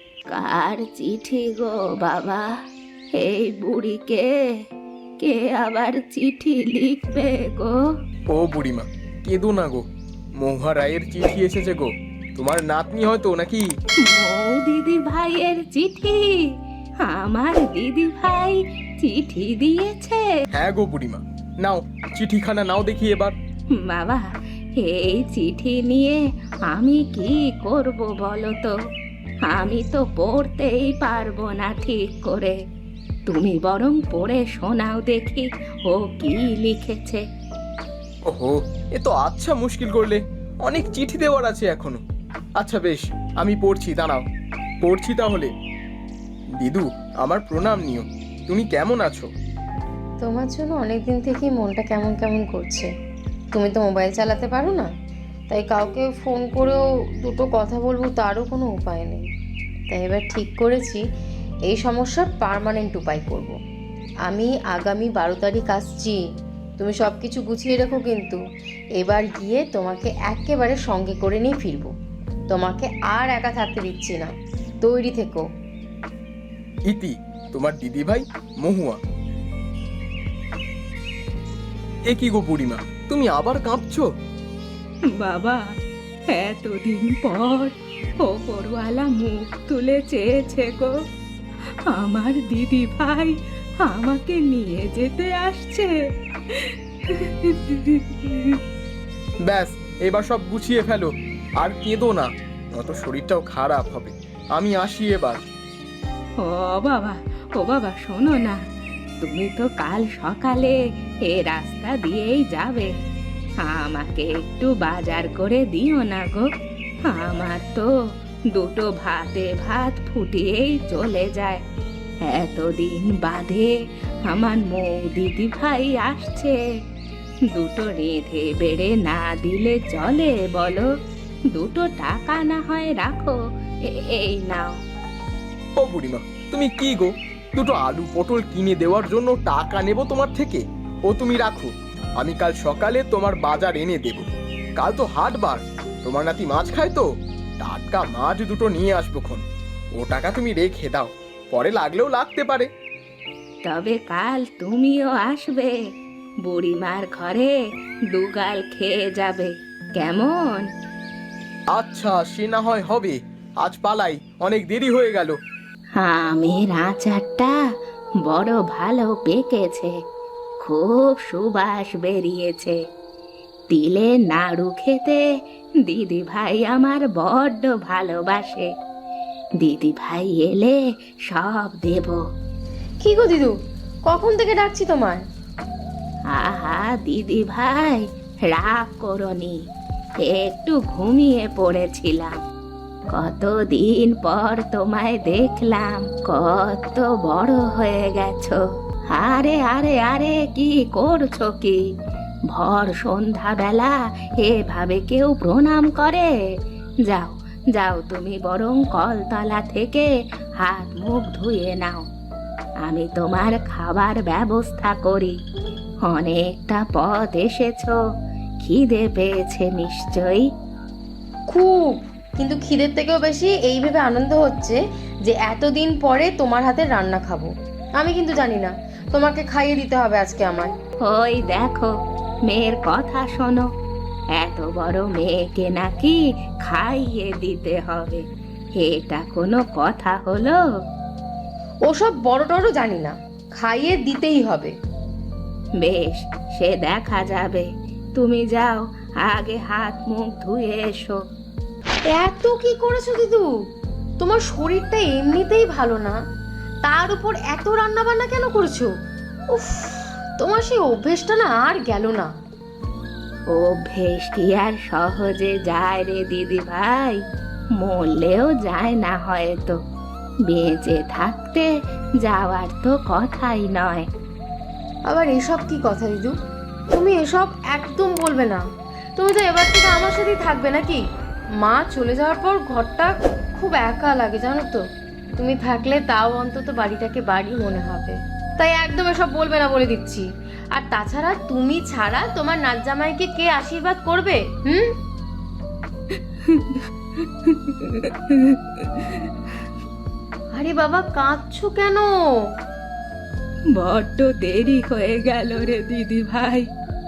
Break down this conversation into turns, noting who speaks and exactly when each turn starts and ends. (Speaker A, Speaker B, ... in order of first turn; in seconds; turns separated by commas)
Speaker A: 0.3-2.5, Speaker A: 3.2-4.5, Speaker A: 5.2-7.8, Speaker B: 8.3-9.8, Speaker B: 10.4-13.7, Speaker A: 14.0-16.5, Speaker A: 17.0-20.3, Speaker B: 20.5-23.3, Speaker A: 23.8-24.3, Speaker A: 24.8-28.7, Speaker A: 29.5-32.6, Speaker A: 33.3-37.2, Speaker B: 38.3-42.0, Speaker B: 42.6-44.2, Speaker B: 44.8-45.5, Speaker B: 46.6-49.3, Speaker C: 50.2-52.9, Speaker C: 53.5-54.9, Speaker C: 55.5-59.3, Speaker C: 59.9-61.0, Speaker C: 61.7-63.5, Speaker C: 64.3-66.2, Speaker C: 66.8-68.4, Speaker C: 69.0-71.9, Speaker C: 72.5-74.3, Speaker C: 74.8-75.5, Speaker B: 76.9-79.0, Speaker B: 82.1-84.1, Speaker A: 85.2-85.6, Speaker A: 86.3-90.9, Speaker A: 91.9-96.0, Speaker A: 96.5-98.6, Speaker B: 99.5-105.4, Speaker A: 106.4-108.6, Speaker A: 109.2-110.8, Speaker A: 111.3-112.9, Speaker A: 113.6-116.5, Speaker A: 117.1-117.9, Speaker A: 118.5-121.6, Speaker A: 122.3-123.7, Speaker A: 124.3-126.6, Speaker A: 127.5-130.9, Speaker A: 131.5-133.4, Speaker A: 133.9-134.8, Speaker B: 135.8-144.3, Speaker B: 144.8-147.1, Speaker B: 147.6-149.4, Speaker B: 150.0-152.7, Speaker A: 153.7-155.7, Speaker A: 156.4-157.6, Speaker A: 158.1-160.7, Speaker B: 161.7-165.4, Speaker A: 166.0-167.6, Speaker A: 168.3-169.9, Speaker A: 170.6-172.8, Speaker A: 173.7-175.2, Speaker A: 175.8-178.7, Speaker A: 179.6-180.8, Speaker A: 181.3-182.2, Speaker C: 183.0-183.5, Speaker C: 184.1-185.2, Speaker A: 186.3-189.6, Speaker A: 190.3-192.4, Speaker A: 193.1-198.6, Speaker A: 199.1-201.8, Speaker A: 202.5-206.3, Speaker A: 207.1-210.1, Speaker A: 210.6-212.0, Speaker A: 212.8-215.4, Speaker A: 216.1-218.0, Speaker A: 218.6-220.4, Speaker C: 221.5-230.7, Speaker A: 231.1-231.9, Speaker A: 232.5-233.7, Speaker A: 234.4-238.2, Speaker A: 238.8-240.6, Speaker C: 241.9-244.7, Speaker A: 245.8-251.2, Speaker C: 252.1-253.5, Speaker C: 254.2-256.2, Speaker C: 256.9-258.9, Speaker C: 259.5-262.3, Speaker A: 263.5-267.2, Speaker A: 267.8-269.8, Speaker A: 270.5-271.7, Speaker A: 272.2-274.1, Speaker C: 275.1-276.4, Speaker C: 276.9-278.6, Speaker C: 279.2-281.0, Speaker C: 281.6-284.8, Speaker C: 285.4-294.9, Speaker A: 296.5-296.8, Speaker A: 297.4-299.3, Speaker C: 300.6-302.1, Speaker A: 303.8-306.7